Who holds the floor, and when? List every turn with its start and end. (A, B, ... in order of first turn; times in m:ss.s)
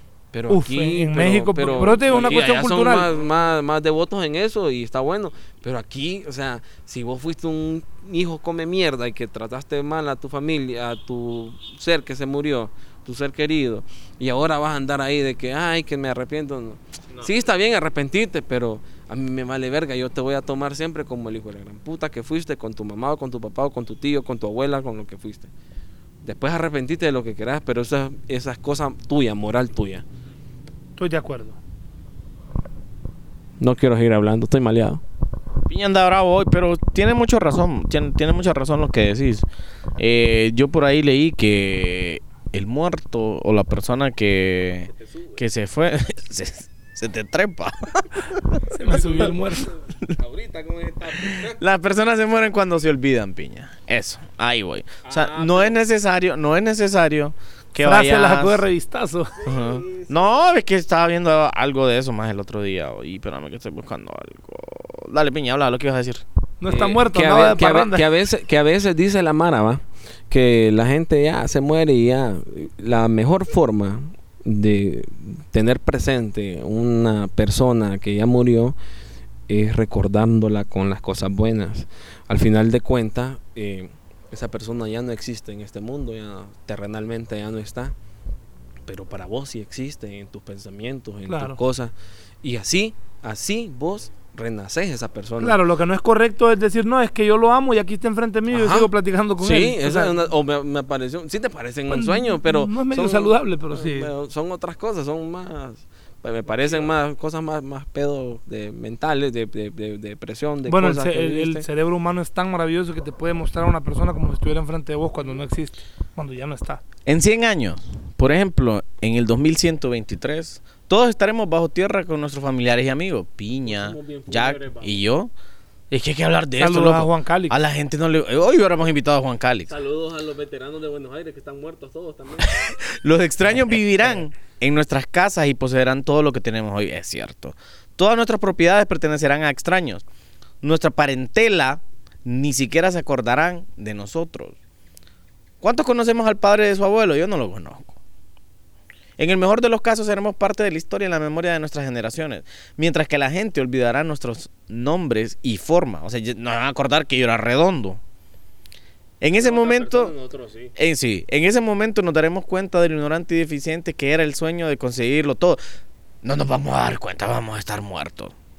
0:00.3-0:25.5 A
0:00.5-0:03.1 B
0:02.2-0:03.5 C
0:26.2-0:30.0 A
0:31.0-0:31.6 B
0:33.6-0:35.0 A
0:35.7-0:39.5 D
0:40.0-0:48.6 D
0:44.9-0:45.4 C
0:48.7-0:49.7 B
0:48.7-0:51.6 C
0:51.2-0:58.6 D
0:55.1-0:55.8 C
0:57.8-0:59.3 B
0:59.4-1:00.5 C
0:59.4-1:06.2 D
1:06.6-1:08.1 B
1:06.7-1:18.8 A
1:19.5-1:28.0 A
1:28.9-1:31.9 A
1:31.3-1:31.6 B
1:32.4-1:35.6 A
1:35.4-1:40.2 B
1:38.5-1:51.7 A
1:41.9-1:44.1 B
1:46.4-1:46.9 C
1:50.7-1:56.8 B
1:57.1-2:05.3 D
2:03.8-2:04.8 A
2:04.0-2:05.0 C
2:05.9-2:09.7 D
2:06.6-2:07.6 B
2:09.7-2:12.6 C
2:12.4-2:20.0 D
2:20.6-2:24.6 D
2:25.6-2:28.0 D
2:29.2-2:38.0 D
2:39.2-2:40.1 D
2:39.4-2:40.7 A
2:40.8-2:45.6 D
2:46.2-2:48.3 D